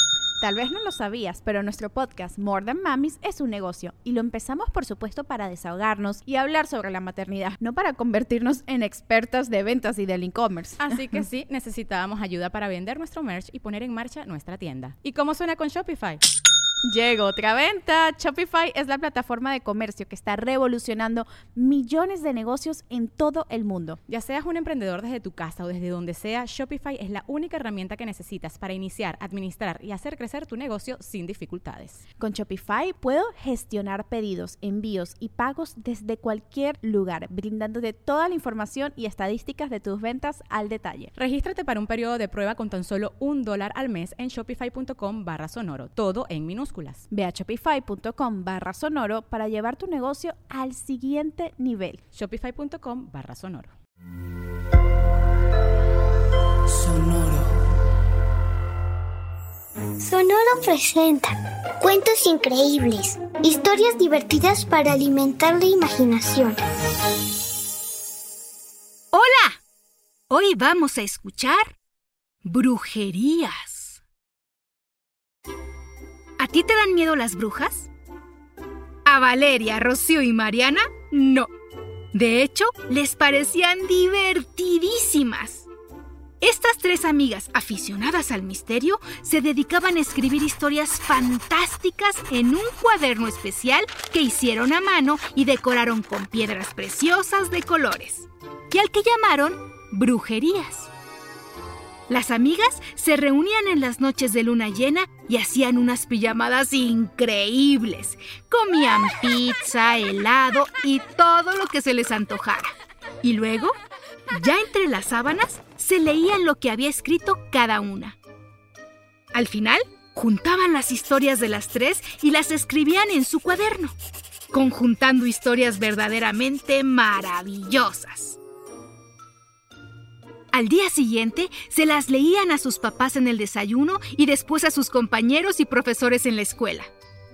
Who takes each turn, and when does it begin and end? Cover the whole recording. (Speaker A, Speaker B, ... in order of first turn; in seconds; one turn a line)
Speaker A: 0.4-11.2
Speaker B: 10.8-16.2
Speaker A: 16.8-24.0
Speaker B: 24.1-32.0
Speaker A: 32.2-41.1
Speaker B: 41.1-47.0
Speaker A: 47.1-52.0
Speaker B: 52.1-53.8
Speaker C: 60.0-66.6
Speaker D: 69.1-69.6
Speaker D: 70.3-71.7
Speaker D: 72.4-74.0
Speaker D: 76.4-77.9
Speaker D: 79.0-81.5
Speaker D: 82.1-85.7
Speaker D: 86.4-100.9
Speaker D: 102.1-113.8
Speaker D: 114.3-118.2
Speaker D: 119.3-123.9
Speaker D: 124.5-128.4
Speaker D: 130.5-136.9